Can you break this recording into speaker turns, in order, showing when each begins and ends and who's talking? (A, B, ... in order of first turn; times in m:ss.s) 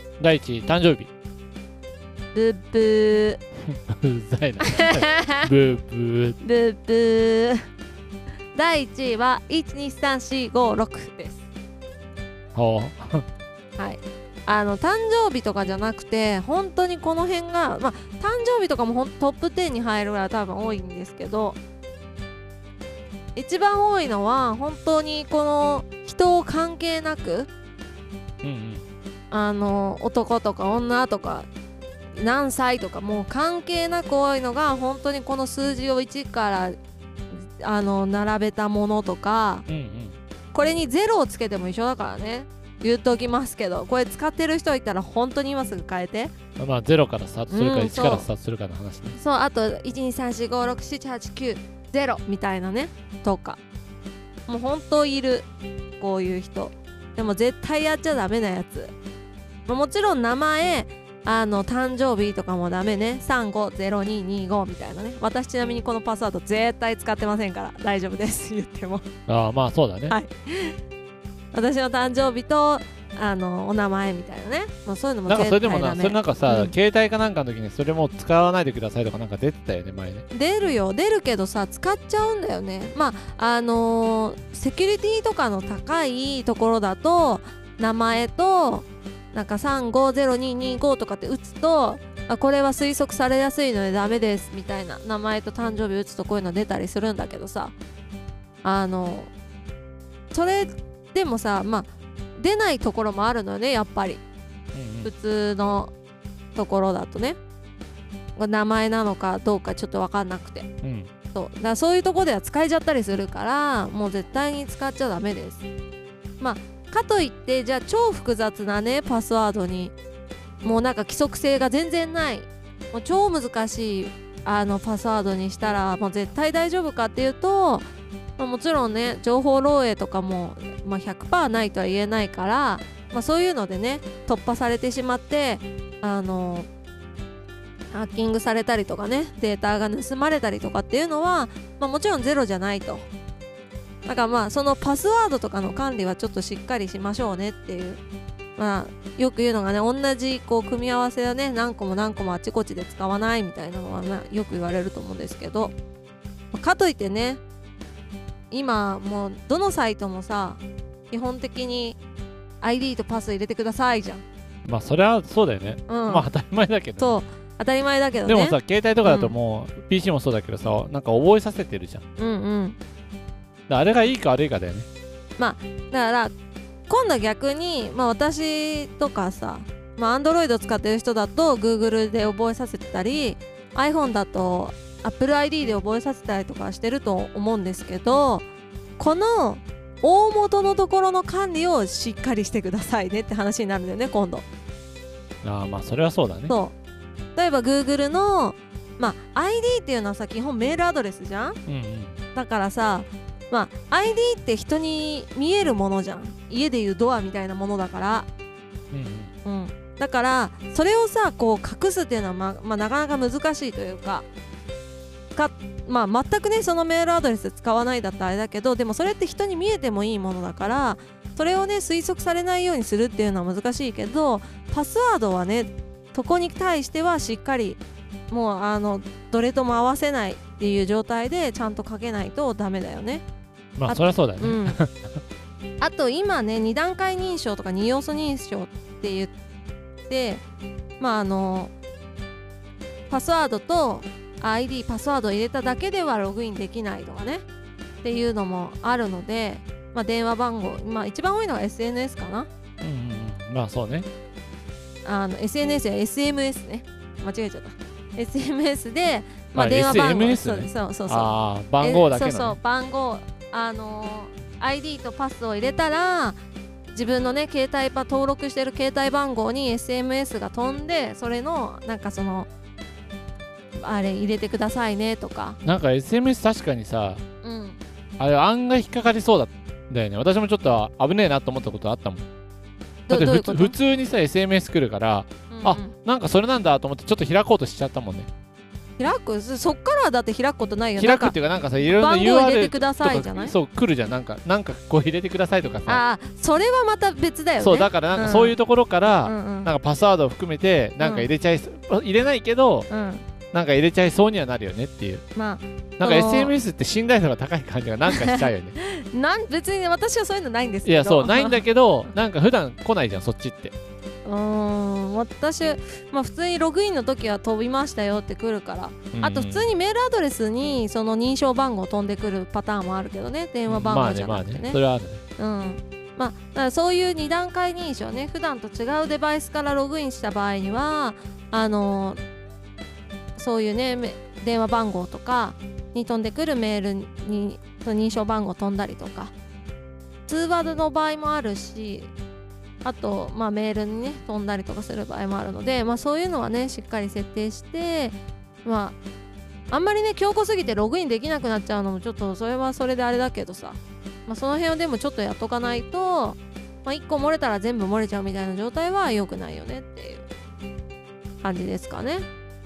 0:00.2-0:01.1 A
0:02.3-0:03.4 B
0:03.7-0:06.4 A
0:04.7-0:05.5 B
0:06.4-0:07.6 B
0:08.5-0:11.4 B
0:12.5-0:13.2 A
0:13.8-0:21.6 B
0:23.3-0:27.5 B
0:28.4-0:28.8 A
0:29.3-0:31.5 B
0:32.1-0:36.8 B
0:37.3-0:39.7 B
0:39.7-0:40.2 A
0:40.5-0:46.3 B
0:46.6-0:49.2 A
0:47.5-0:48.3 B
0:49.1-0:53.6 B
0:54.5-0:55.5 B
0:56.0-0:58.9 B
0:59.7-1:09.0 B
1:09.3-1:10.2 A
1:10.1-1:10.8 B
1:11.5-1:16.7 B
1:15.3-1:20.2 A
1:20.3-1:37.7 B
1:38.6-1:39.3 B
1:40.3-1:44.2 B
1:44.7-1:45.1 A
1:45.0-1:45.9 B
1:46.5-1:47.4 B
1:48.4-1:50.7 B
1:50.8-1:51.1 A
1:51.3-1:55.6 B
1:56.4-1:59.9 B
2:00.6-2:07.8 B
2:08.4-2:16.7 B
2:17.9-2:23.1 B
2:24.0-2:28.0 B
2:28.6-2:35.7 B
2:36.5-2:37.4 B
2:38.5-2:42.0 B
2:42.6-2:44.2 B
2:44.6-2:47.2 A
2:45.9-2:46.3 B
2:47.0-2:49.3 B
2:48.2-2:52.0 A
2:52.2-2:52.8 B
2:53.7-2:54.9 A
2:55.4-2:56.3 B
2:56.9-3:08.4 B
3:09.0-3:14.4 B
3:15.4-3:16.5 A
3:16.5-3:16.7 B
3:17.4-3:21.6 B
3:21.7-3:22.2 A
3:22.3-3:28.3 B
3:28.9-3:29.3 A
3:29.4-3:34.2 B
3:35.3-3:53.2 B
3:53.8-3:55.2 A
3:53.8-3:54.8 B
3:55.8-3:59.3 B
4:00.1-4:00.4 B
4:01.0-4:01.7 B
4:03.1-4:07.4 B
4:08.0-4:12.5 B
4:12.8-4:14.1 A
4:15.0-4:26.4 B
4:19.6-4:22.6 A
4:26.9-4:32.5 B
4:33.8-4:35.6 B
4:35.6-4:37.2 A
4:37.4-4:37.8 B
4:38.2-4:42.3 A
4:43.1-4:43.8 B
4:43.1-4:48.3 A
4:45.5-4:45.9 B
4:49.0-4:53.5 B
4:51.0-4:56.0 A
4:55.9-4:58.6 B
4:57.6-5:02.9 A
4:59.2-4:59.7 B
5:01.0-5:01.3 B
5:02.9-5:03.2 B
5:03.5-5:05.2 A
5:05.4-5:06.6 B
5:06.0-5:08.8 A
5:08.1-5:11.6 B
5:10.8-5:13.7 A
5:14.2-5:24.8 B
5:19.1-5:19.7 A
5:23.7-5:25.2 A
5:25.4-5:32.2 B
5:33.4-5:39.3 B
5:40.3-5:42.1 B
5:42.8-5:49.0 B
5:49.7-6:00.2 B
6:01.4-6:02.2 B